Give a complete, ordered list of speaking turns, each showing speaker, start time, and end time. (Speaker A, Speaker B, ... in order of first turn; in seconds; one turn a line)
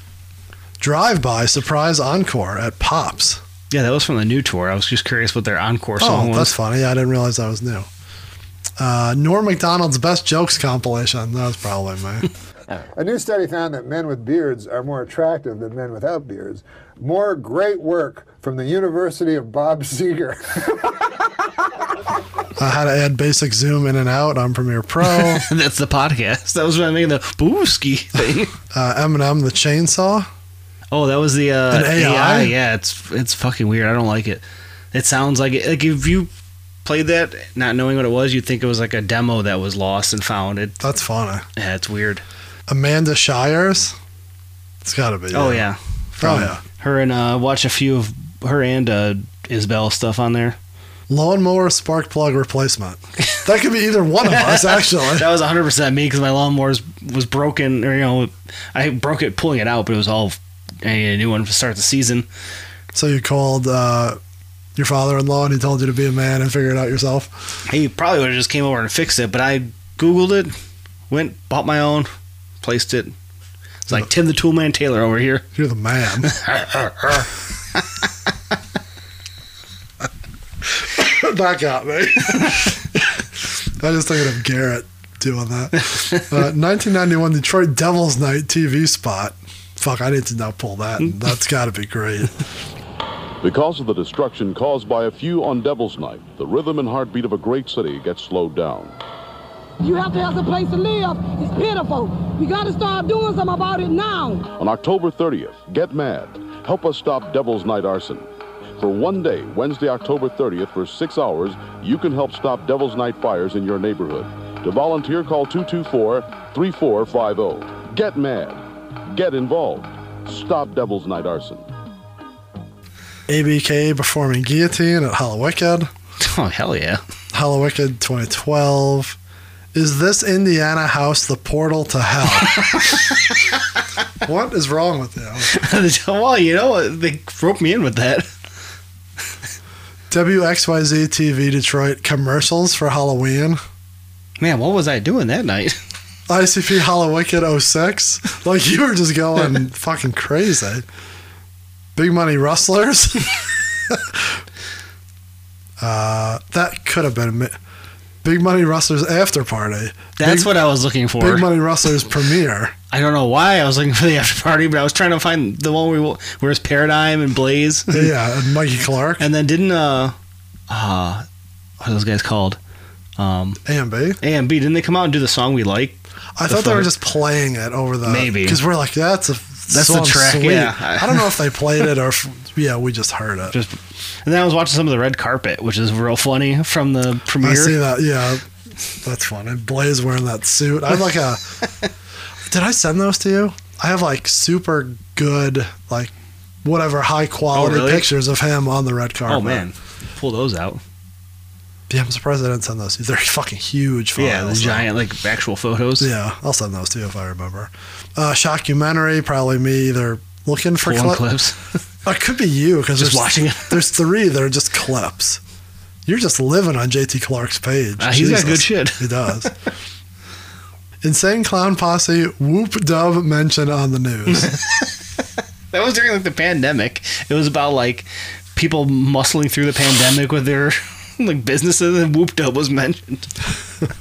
Speaker A: 0.8-3.4
Speaker B: 3.7-6.6
Speaker A: 6.0-7.9
Speaker A: 8.8-12.3
Speaker C: 13.0-21.2
Speaker A: 22.6-25.4
Speaker B: 25.0-28.5
Speaker A: 28.7-30.3
Speaker B: 30.9-36.3
Speaker A: 31.7-32.5
Speaker B: 36.8-40.8
Speaker A: 40.8-41.5
Speaker B: 41.6-42.2
Speaker A: 42.7-44.0
Speaker A: 44.8-45.7
Speaker B: 45.3-50.6
Speaker A: 46.2-46.6
Speaker A: 51.1-55.3
Speaker B: 54.2-62.3
Speaker A: 62.9-64.2
Speaker A: 64.8-67.3
Speaker B: 67.7-70.5
Speaker B: 71.1-72.1
Speaker B: 72.6-73.1
Speaker B: 73.8-75.5
Speaker A: 75.5-76.3
Speaker B: 76.3-77.8
Speaker A: 80.8-82.8
Speaker B: 82.4-82.7
Speaker A: 83.4-92.4
Speaker B: 85.8-86.3
Speaker D: 93.4-99.0
Speaker E: 99.8-104.5
Speaker D: 104.6-121.7
Speaker A: 123.3-125.9
Speaker B: 126.2-127.0
Speaker A: 127.3-129.2
Speaker A: 129.7-132.7
Speaker B: 132.4-133.3
Speaker A: 134.2-135.5
Speaker B: 135.4-138.3
Speaker A: 140.1-143.6
Speaker B: 144.4-145.8
Speaker A: 146.3-150.8
Speaker A: 151.9-154.4
Speaker A: 155.8-157.6
Speaker A: 158.2-160.5
Speaker B: 160.2-161.5
Speaker A: 161.2-162.8
Speaker B: 162.9-168.1
Speaker A: 167.9-169.3
Speaker B: 169.2-170.2
Speaker B: 170.7-171.3
Speaker B: 171.8-172.6
Speaker B: 173.2-173.6
Speaker A: 173.7-174.2
Speaker B: 174.2-176.9
Speaker A: 176.4-183.6
Speaker B: 178.1-178.6
Speaker B: 179.7-181.3
Speaker B: 183.5-187.8
Speaker A: 187.4-188.5
Speaker A: 189.0-191.6
Speaker A: 192.5-196.1
Speaker A: 196.6-199.7
Speaker B: 197.5-198.1
Speaker B: 199.3-200.8
Speaker A: 201.9-204.9
Speaker B: 204.2-206.1
Speaker A: 206.0-211.2
Speaker B: 210.8-211.7
Speaker A: 212.1-215.4
Speaker B: 213.0-213.9
Speaker A: 216.1-219.5
Speaker B: 218.0-219.5
Speaker A: 221.0-224.5
Speaker B: 224.3-224.9
Speaker B: 225.7-233.3